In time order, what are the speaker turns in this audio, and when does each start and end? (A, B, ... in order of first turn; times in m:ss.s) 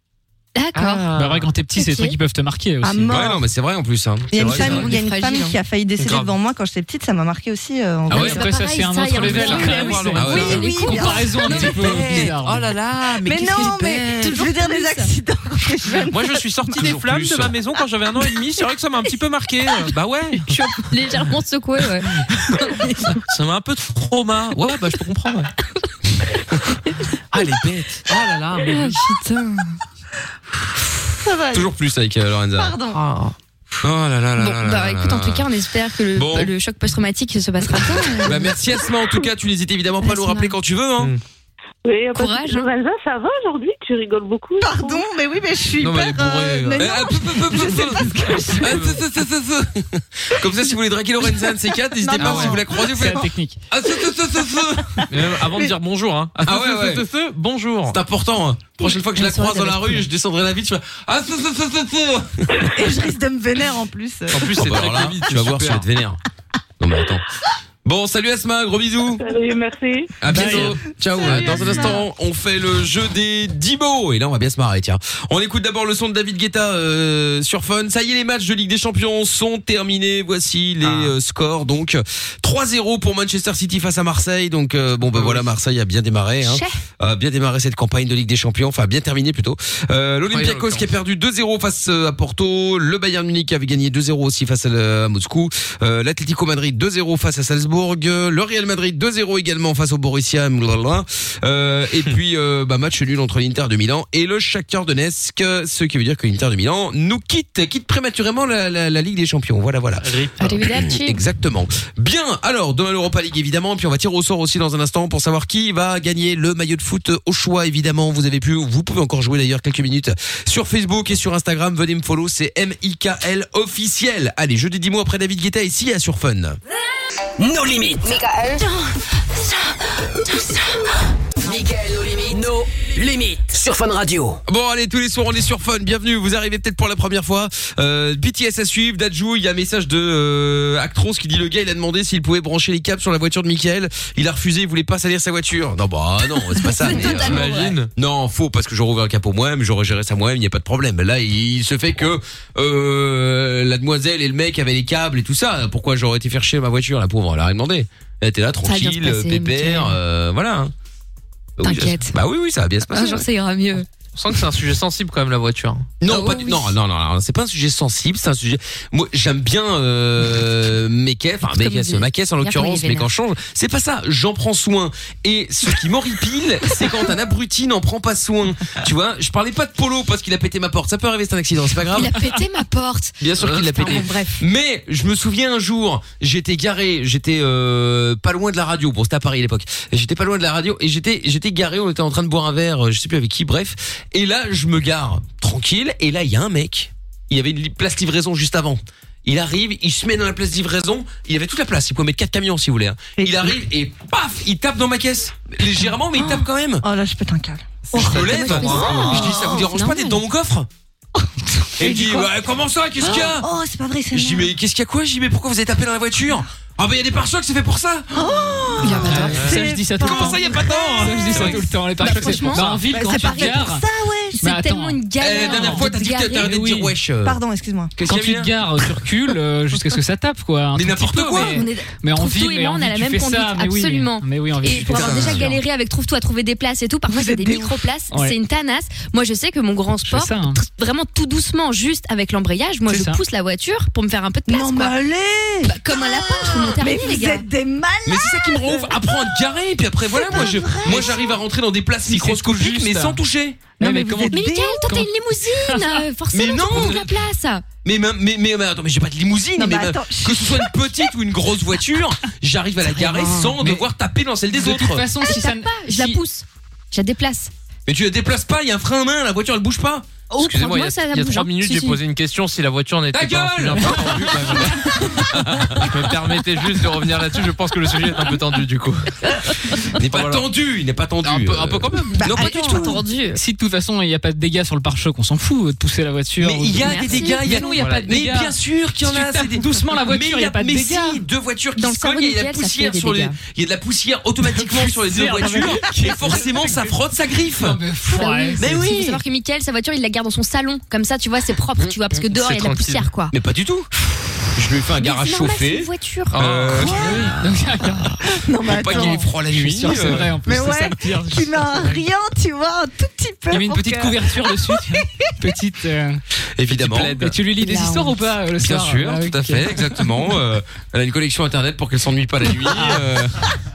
0:00.5-0:01.1 A
0:00.7-0:01.5 B
0:01.1-0:03.2 C
0:01.7-0:02.2 A
0:02.8-0:03.4 D
0:03.1-0:04.9 E
0:04.3-0:08.4 D
0:04.4-0:04.8 B
0:04.5-0:05.6 A
0:06.0-0:06.3 B
0:08.1-0:12.7 C
0:08.1-0:08.4 E
0:08.1-0:12.0 A
0:09.2-0:10.5 B
0:10.1-0:10.7 E
0:10.2-0:12.2 D
0:11.6-0:12.4 E
0:12.4-0:14.1 B
0:13.2-0:16.4 D
0:13.4-0:13.8 E
0:13.6-0:15.1 A
0:16.1-0:20.5 B
0:16.7-0:17.6 E
0:20.4-0:23.1 A
0:23.2-0:25.5 B
0:27.3-0:28.0 E
0:28.0-0:29.0 B
0:28.6-0:29.8 D
0:31.2-0:31.7 D
0:31.5-0:32.8 E
0:32.6-0:33.0 D
0:32.9-0:33.3 B
0:33.8-0:35.5 E
0:34.4-0:38.5 A
0:36.1-0:36.5 E
0:38.2-0:41.1 E
0:40.0-0:40.5 A
0:41.8-0:45.0 F
0:42.1-0:42.7 A
0:44.6-0:48.8 D
0:45.8-0:47.0 B
0:46.8-0:55.0 E
0:48.5-0:49.0 B
0:52.0-0:53.2 D
0:52.2-0:52.6 B
0:52.8-0:53.6 C
0:55.0-0:55.7 D
0:55.1-0:58.0 B
0:56.4-0:57.0 E
0:57.9-1:02.8 E
0:58.8-1:00.0 A
1:02.6-1:04.8 D
1:04.3-1:05.8 B
1:04.5-1:06.2 E
1:06.8-1:07.2 E
1:07.8-1:09.2 E
1:09.2-1:10.2 F
1:10.2-1:50.1 E
1:10.2-1:10.8 C
1:10.3-1:12.0 D
1:11.5-1:11.9 B
1:20.8-1:21.1 B
1:25.1-1:25.4 B
1:26.4-1:26.8 A
1:30.3-1:30.9 B
1:50.0-1:50.6 B
1:50.4-1:51.2 A
1:50.6-2:06.6 E
2:07.4-2:08.3 G
2:11.4-2:14.4 G
2:14.4-2:40.7 E
2:26.6-2:27.7 A
2:26.9-2:27.9 B
2:38.6-2:40.0 A
2:41.6-2:43.2 E
2:41.6-2:42.2 A
2:42.9-2:43.8 A
2:44.1-2:45.9 B
2:46.0-3:02.2 E
2:46.0-2:46.7 A
2:51.5-2:53.1 A
3:01.9-3:04.4 A
3:03.2-3:26.8 E
3:23.2-3:23.5 D
3:26.2-3:29.7 D
3:27.9-3:30.7 E
3:27.9-3:30.2 A
3:31.2-3:32.3 D
3:31.8-3:33.5 E
3:33.0-3:34.5 D
3:34.1-3:38.4 E
3:38.1-3:44.4 D
3:38.8-3:39.4 A
3:38.8-3:43.8 C
3:39.2-3:39.6 B
3:40.0-3:42.8 E
3:42.0-3:43.7 A
3:44.4-3:46.5 A
3:44.4-3:45.9 C
3:45.2-3:47.4 E
3:46.4-3:46.9 C
3:47.2-3:47.9 D
3:48.0-3:48.6 E
3:48.0-3:55.6 C
3:50.7-3:51.6 E
3:51.3-4:04.9 A
3:54.7-3:55.5 E
3:57.1-3:57.8 D
4:00.0-4:00.6 C
4:02.9-4:03.2 C
4:04.5-4:09.4 D
4:05.6-4:07.4 A
4:08.0-4:13.6 E
4:10.1-4:11.4 D
4:12.1-4:13.2 B
4:13.8-4:16.0 C
4:13.8-4:14.8 D
4:14.3-4:17.6 A
4:16.3-4:17.0 E
4:17.8-4:25.1 E
4:19.6-4:20.7 D
4:22.9-4:23.5 A
4:23.6-4:23.9 C
4:24.5-4:26.2 C
4:25.2-4:27.5 A
4:27.8-4:30.1 E
4:30.3-4:32.0 A
4:30.4-4:34.9 B
4:33.1-4:36.1 E
4:35.8-4:39.1 B
4:39.5-4:40.0 A
4:40.0-4:42.6 E
4:40.0-4:40.4 B
4:41.2-4:42.4 B
4:42.2-4:43.0 D
4:42.2-4:43.4 A
4:43.3-4:51.2 C
4:46.4-4:57.8 E
4:46.8-4:47.7 A
4:47.8-4:48.2 B
4:51.8-4:53.4 A
4:54.5-4:58.7 C
4:58.1-5:03.3 A
4:58.6-4:59.2 E
5:02.3-5:03.1 B
5:03.3-5:03.9 E
5:04.5-5:07.5 E
5:05.0-5:06.4 A
5:06.3-5:07.4 B
5:06.8-5:07.2 D
5:06.9-5:08.2 C
5:08.3-5:09.3 D
5:08.6-5:10.3 E
5:08.9-5:12.0 C
5:09.9-5:10.2 B
5:10.1-5:15.0 D
5:13.5-5:16.2 C
5:16.6-5:17.2 E
5:16.7-5:17.4 B
5:17.2-5:20.1 C
5:17.6-5:18.2 A
5:18.6-5:23.4 E
5:22.7-5:23.0 C